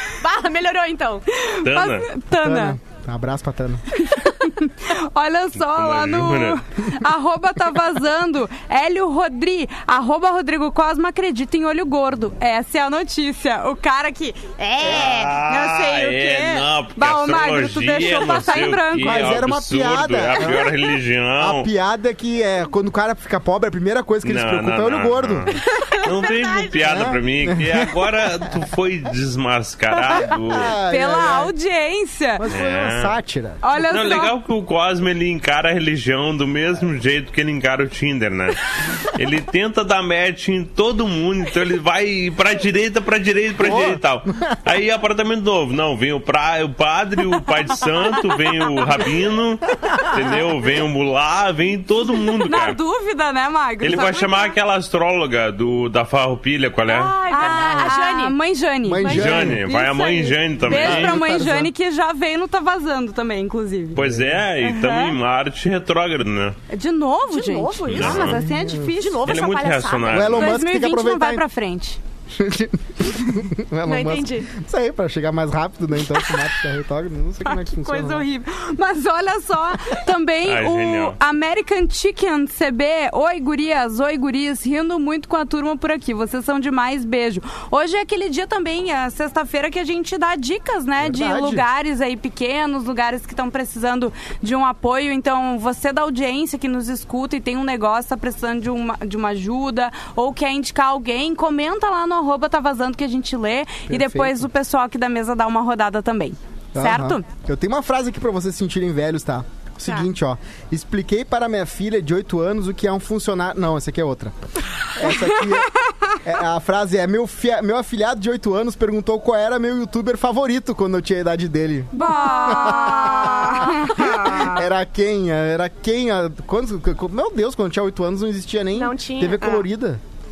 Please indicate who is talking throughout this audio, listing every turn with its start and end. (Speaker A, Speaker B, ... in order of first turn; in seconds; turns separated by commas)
Speaker A: 0.2-1.2, Speaker B: 1.3-2.8, Speaker C: 1.6-2.1, Speaker D: 2.3-3.8, Speaker B: 4.0-19.3, Speaker C: 5.6-6.6, Speaker C: 14.8-21.7, Speaker D: 19.0-20.7, Speaker D: 21.4-25.5, Speaker C: 24.2-30.7, Speaker A: 26.2-26.6, Speaker D: 26.8-27.9, Speaker D: 30.3-31.5, Speaker B: 30.8-32.5, Speaker D: 32.4-33.7, Speaker C: 32.5-33.1, Speaker B: 33.6-34.3, Speaker C: 33.9-52.8, Speaker D: 43.6-44.5, Speaker B: 52.5-54.5, Speaker C: 53.8-57.5, Speaker A: 56.9-58.4, Speaker B: 57.3-64.0, Speaker D: 57.5-57.9, Speaker D: 58.8-59.6, Speaker A: 59.0-59.5, Speaker C: 59.0-61.2, Speaker D: 60.6-61.7, Speaker C: 63.9-66.6, Speaker B: 64.6-65.1, Speaker B: 66.7-69.2, Speaker A: 67.3-68.4, Speaker C: 67.9-68.4, Speaker D: 67.9-68.9, Speaker A: 69.0-70.3, Speaker C: 69.2-70.6, Speaker D: 70.1-71.4, Speaker B: 70.3-72.0, Speaker D: 72.3-78.2, Speaker A: 73.8-74.5, Speaker B: 77.5-107.2, Speaker C: 80.4-81.2, Speaker D: 91.0-91.6, Speaker D: 103.9-104.5, Speaker D: 106.7-130.0, Speaker B: 115.0-115.5, Speaker B: 121.9-124.7, Speaker A: 122.0-123.0, Speaker A: 128.7-129.6